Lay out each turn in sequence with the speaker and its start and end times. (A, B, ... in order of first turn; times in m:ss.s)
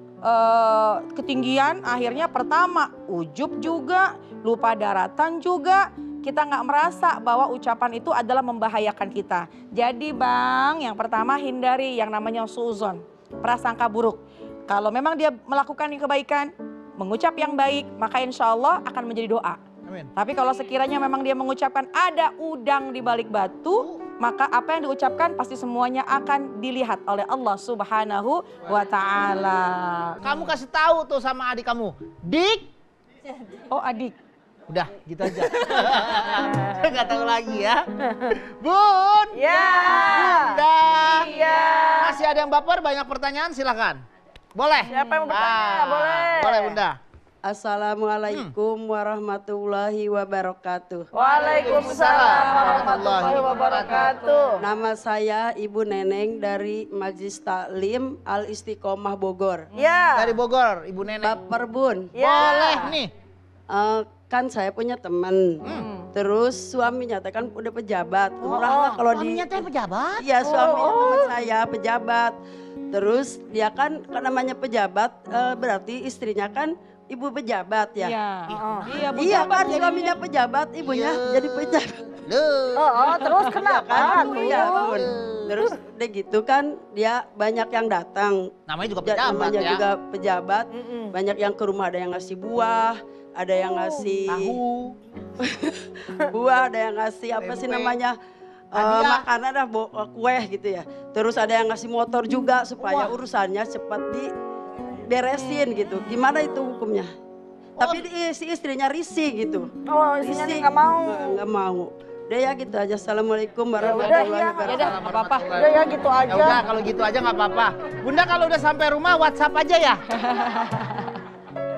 0:00.2-0:19.6 A
0:19.8-0:20.1 B
0:20.2-0:30.2 A
0:23.7-0:24.0 B
0:30.2-0:32.7 B
0:33.7-0:34.1 A
0:34.7-0:39.4 B
0:35.6-0:35.9 A
0:39.3-0:42.2 C
0:39.7-0:40.0 A
0:40.1-0:41.2 B
0:42.0-0:44.0 B
0:44.5-0:47.0 B
0:44.8-0:45.4 A
0:44.9-0:46.8 C
0:47.4-0:51.0 D
0:51.1-0:54.6 C
0:51.6-0:54.1 B
0:51.7-0:53.7 A
0:54.6-0:59.6 D
0:59.7-1:00.4 C
1:00.1-1:01.4 B
1:01.2-1:02.1 D
1:02.1-1:03.0 C
1:02.1-1:03.1 B
1:03.7-1:05.5 D
1:05.6-1:06.1 A
1:06.1-1:09.4 D
1:08.4-1:10.3 B
1:08.5-1:08.9 C
1:10.2-1:12.3 D
1:10.4-1:11.3 C
1:12.9-1:18.1 D
1:18.0-1:20.2 A
1:18.4-1:18.9 B
1:18.5-1:18.9 C
1:19.2-1:22.0 D
1:20.8-1:22.9 B
1:22.8-1:25.1 C
1:23.1-1:24.8 A
1:23.6-1:28.5 D
1:23.9-1:25.6 B
1:28.7-1:29.8 B
1:29.0-1:34.5 D
1:30.7-1:31.1 C
1:34.3-1:35.0 B
1:35.4-1:38.1 D
1:37.4-1:38.0 B
1:38.7-1:39.3 B
1:38.7-1:44.3 D
1:42.8-1:43.1 B
1:45.1-1:47.1 D
1:47.8-1:48.0 B
1:47.8-1:49.7 D
1:49.8-1:51.4 C
1:50.2-1:54.7 D
1:53.8-1:54.9 C
1:53.8-1:55.6 A
1:54.7-2:00.0 B
1:55.5-1:56.6 C
2:00.1-2:01.1 A